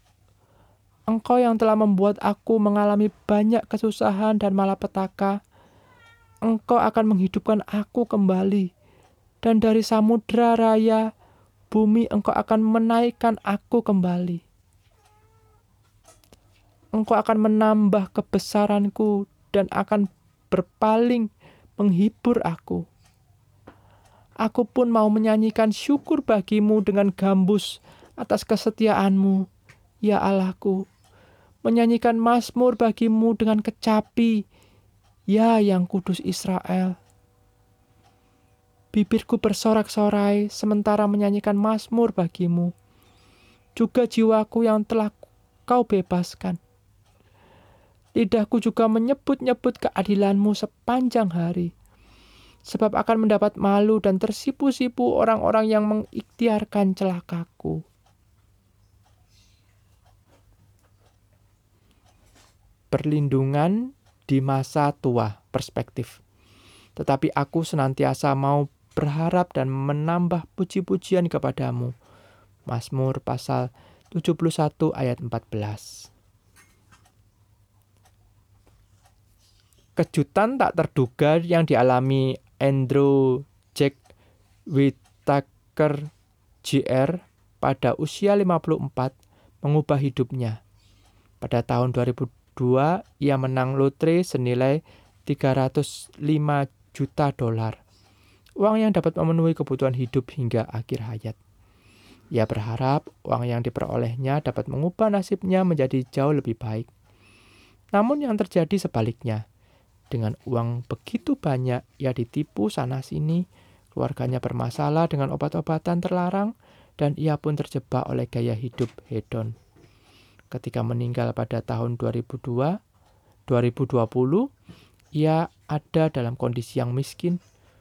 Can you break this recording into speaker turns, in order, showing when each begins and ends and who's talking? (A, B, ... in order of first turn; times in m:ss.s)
0:01.1-0:05.4 A
0:06.4-0:08.7 A
0:09.4-0:11.0 A
0:11.7-0:14.4 A
0:16.9-0:22.8 A
0:24.4-0:29.4 A
0:30.0-0:30.8 A
0:31.6-0:34.4 A
0:35.3-0:37.0 A
0:38.9-0:42.7 A
0:43.8-0:46.6 A
0:48.2-0:51.7 A
0:52.7-0:57.8 A
1:02.9-1:06.2 A
1:07.0-1:11.9 A
1:12.7-1:15.9 A
1:20.0-1:24.0 A
1:24.7-1:26.1 A
1:26.6-1:30.6 A
1:31.4-1:37.8 A
1:38.6-1:41.4 A
1:42.3-1:46.9 A
1:47.9-1:49.4 A
1:50.1-1:59.5 A
2:00.5-2:02.8 A
2:03.5-2:04.4 A
2:05.2-2:07.4 A